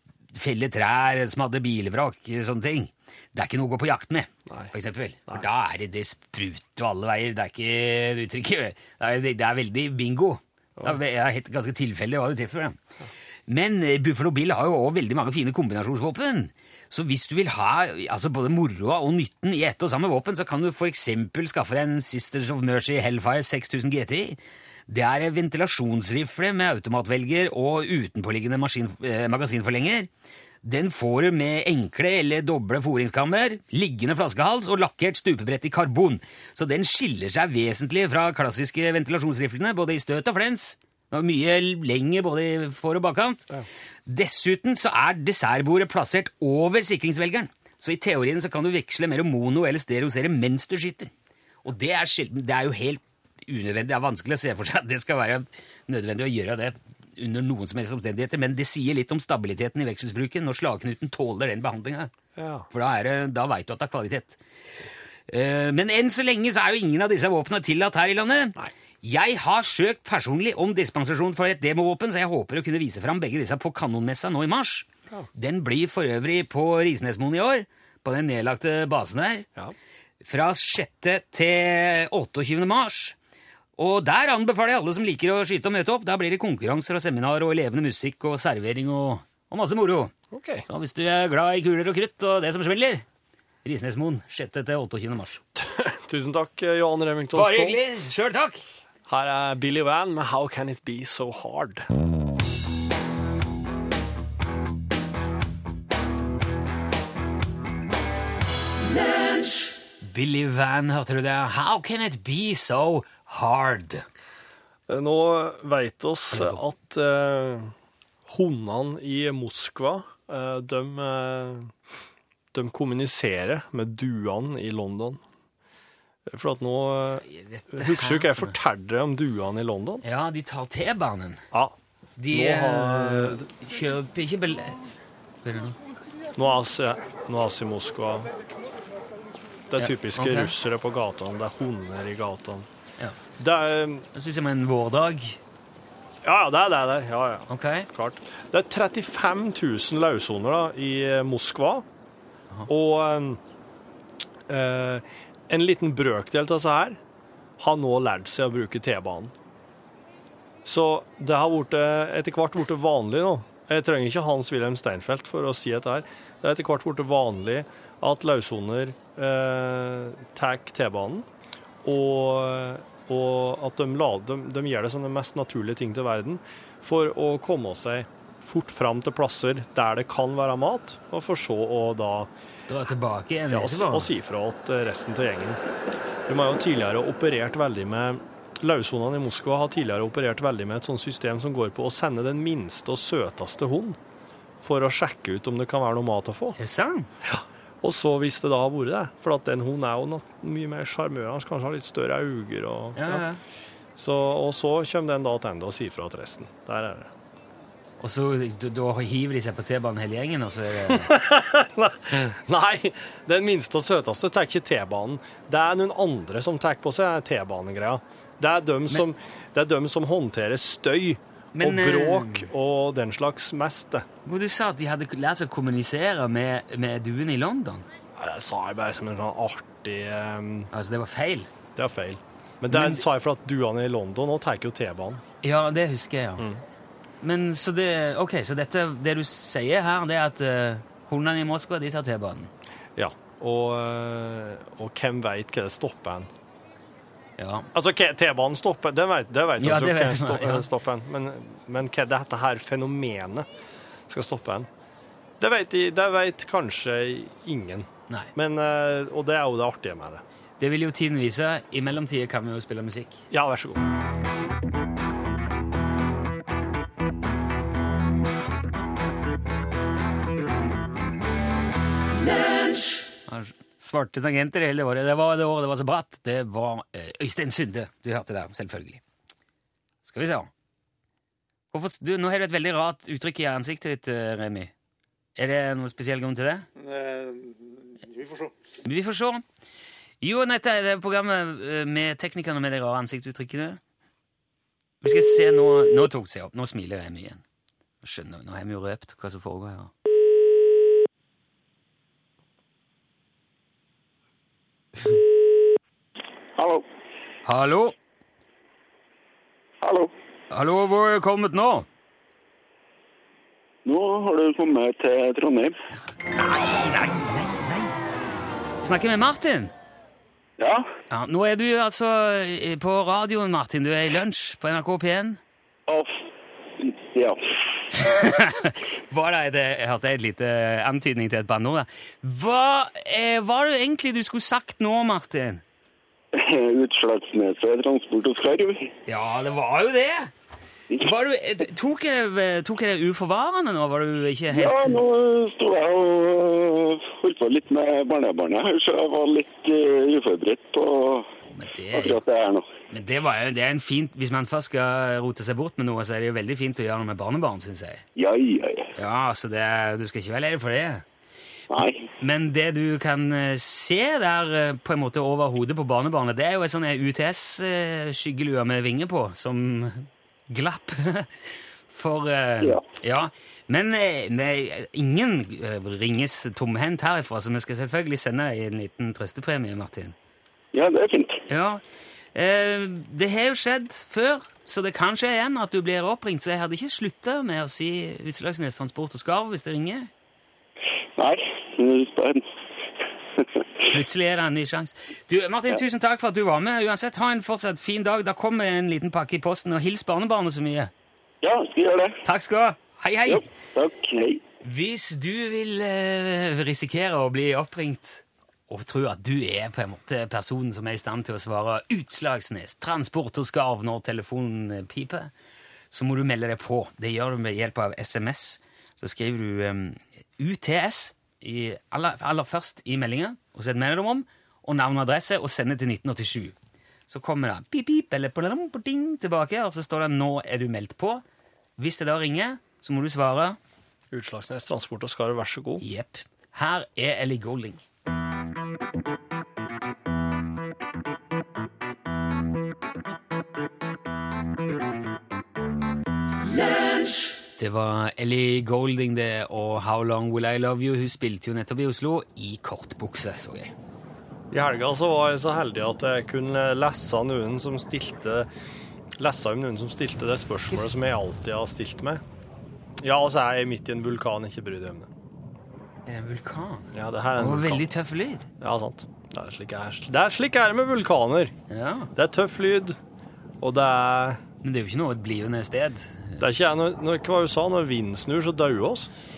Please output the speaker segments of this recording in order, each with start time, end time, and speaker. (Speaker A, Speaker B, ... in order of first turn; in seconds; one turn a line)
Speaker A: 0.3-12.8
Speaker B: 4.5-4.7
Speaker A: 13.5-30.1
Speaker A: 30.6-43.5
Speaker A: 44.1-51.1
Speaker A: 51.6-62.1
Speaker B: 62.4-62.7
Speaker A: 62.7-64.4
Speaker A: 65.3-79.5
Speaker A: 80.2-83.2
Speaker A: 83.8-90.1
Speaker B: 90.3-90.7
Speaker A: 90.7-93.0
Speaker A: 93.7-95.4
Speaker B: 95.6-97.8
Speaker A: 97.3-98.6
Speaker B: 99.1-101.9
Speaker A: 110.0-114.0
Speaker B: 114.9-117.7
Speaker A: 116.3-116.6
Speaker B: 118.3-121.7
Speaker B: 122.5-125.2
Speaker B: 126.3-130.0
Speaker A: 127.2-128.6
Speaker A: 130.0-131.4
Speaker A: 132.2-134.9
Speaker B: 132.3-133.5
Speaker A: 135.4-135.8
Speaker B: 136.4-138.3
Speaker B: 139.7-142.7
Speaker A: 139.8-140.5
Speaker B: 143.4-144.1
Speaker A: 144.1-145.4
Speaker B: 146.2-151.8
Speaker A: 147.5-147.9
Speaker B: 152.7-153.4
Speaker B: 154.5-157.0
Speaker B: 157.6-159.3
Speaker B: 160.7-171.3
Speaker B: 171.8-182.3
Speaker A: 182.7-184.1
Speaker B: 183.5-185.6
Speaker B: 186.3-194.0
Speaker B: 194.6-196.6
Speaker A: 196.6-197.1
Speaker B: 197.2-203.2
Speaker A: 202.9-203.4
Speaker B: 204.0-207.1
Speaker A: 208.0-211.1
Speaker B: 210.9-224.1
Speaker A: 221.6-222.5
Speaker A: 224.2-227.8
Speaker B: 228.2-230.7
Speaker A: 230.7-231.5
Speaker B: 231.8-235.2
Speaker A: 232.7-233.0
Speaker A: 235.4-236.5
Speaker B: 236.4-236.6
Speaker A: 237.2-242.5
Speaker B: 243.0-246.3
Speaker A: 247.4-247.7
Speaker B: 247.7-253.5
Speaker A: 249.6-250.7
Speaker B: 254.1-254.7
Speaker B: 255.4-260.2
Speaker A: 260.6-263.2
Speaker B: 263.3-263.9
Speaker A: 273.3-279.0
Speaker A: 280.0-280.5
Speaker A: 281.7-284.7
Speaker A: 285.4-286.7
Speaker A: 288.8-289.4
Speaker A: 290.2-293.8
Speaker A: 295.0-297.4
Speaker A: 298.0-299.9
Speaker C: 306.6-306.9
Speaker A: 307.4-307.9
Speaker C: 309.8-310.1
Speaker A: 310.5-311.9
Speaker C: 313.9-315.8
Speaker A: 316.3-318.0
Speaker A: 318.8-319.7
Speaker C: 320.6-320.9
Speaker A: 321.1-325.4
Speaker C: 325.9-326.1
Speaker C: 326.8-327.4
Speaker A: 327.9-335.6
Speaker C: 336.3-338.9
Speaker A: 339.1-340.3
Speaker A: 341.0-345.0
Speaker C: 344.5-351.3
Speaker A: 351.5-352.2
Speaker C: 351.9-352.7
Speaker A: 352.9-358.0
Speaker C: 358.2-358.9
Speaker A: 358.9-361.1
Speaker C: 361.7-362.1
Speaker A: 362.2-371.3
Speaker A: 371.9-380.1
Speaker C: 380.7-381.4
Speaker A: 381.5-381.8
Speaker A: 382.3-390.1
Speaker C: 391.2-392.4
Speaker A: 393.8-400.9
Speaker C: 401.4-402.2
Speaker A: 402.2-403.4
Speaker C: 403.3-404.4
Speaker A: 404.6-415.3
Speaker A: 415.9-426.6
Speaker A: 427.1-431.2
Speaker A: 431.8-433.6
Speaker B: 434.1-435.8
Speaker A: 435.8-437.8
Speaker A: 447.6-453.7
Speaker B: 454.5-458.5
Speaker B: 459.2-462.2
Speaker B: 463.0-465.1
Speaker A: 466.1-468.5
Speaker B: 466.9-467.9
Speaker B: 468.6-471.5
Speaker A: 471.7-472.1
Speaker B: 472.1-473.0
Speaker B: 473.6-474.4
Speaker A: 474.6-476.4
Speaker B: 476.4-479.1